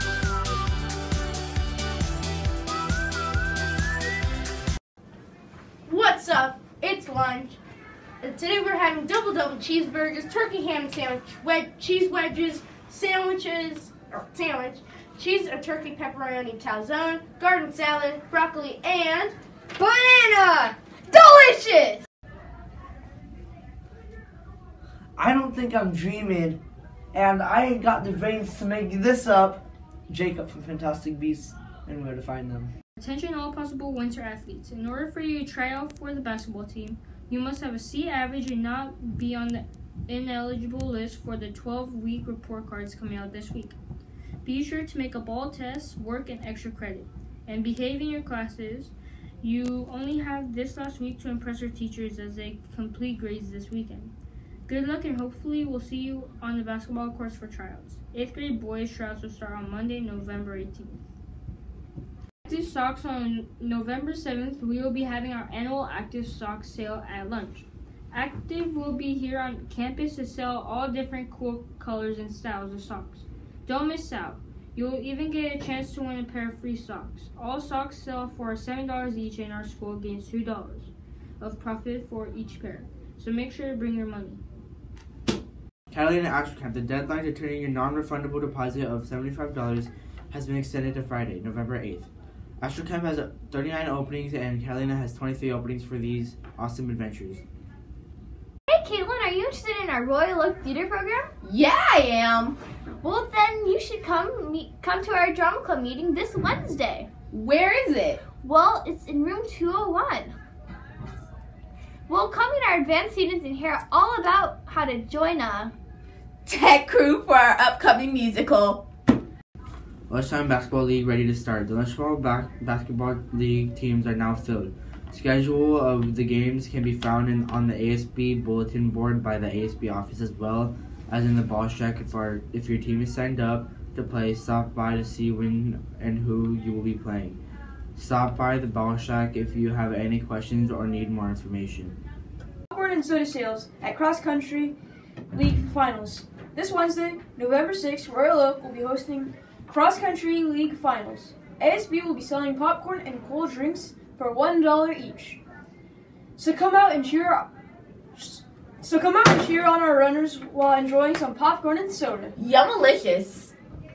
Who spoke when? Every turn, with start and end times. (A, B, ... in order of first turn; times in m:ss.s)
0:05.8-0:07.6 A
0:08.2-0:22.0 A
0:25.2-0:26.6 B
0:27.1-0:32.7 B
0:33.0-0:43.8 C
0:44.4-0:54.1 C
0:54.7-1:01.0 C
1:02.4-1:24.4 C
1:25.9-1:32.1 D
1:32.6-1:37.4 D
1:38.7-1:41.3 E
1:41.4-1:42.6 F
1:43.0-1:47.2 E
1:47.3-1:48.2 F
1:48.3-1:50.4 E
1:52.1-1:55.7 E
1:56.4-1:58.8 F
2:00.1-2:17.4 D
2:17.9-2:22.0 D
2:22.7-2:24.7 G
2:25.3-2:35.4 G
2:36.4-2:37.5 G
2:38.2-2:42.3 G
2:42.4-2:43.5 F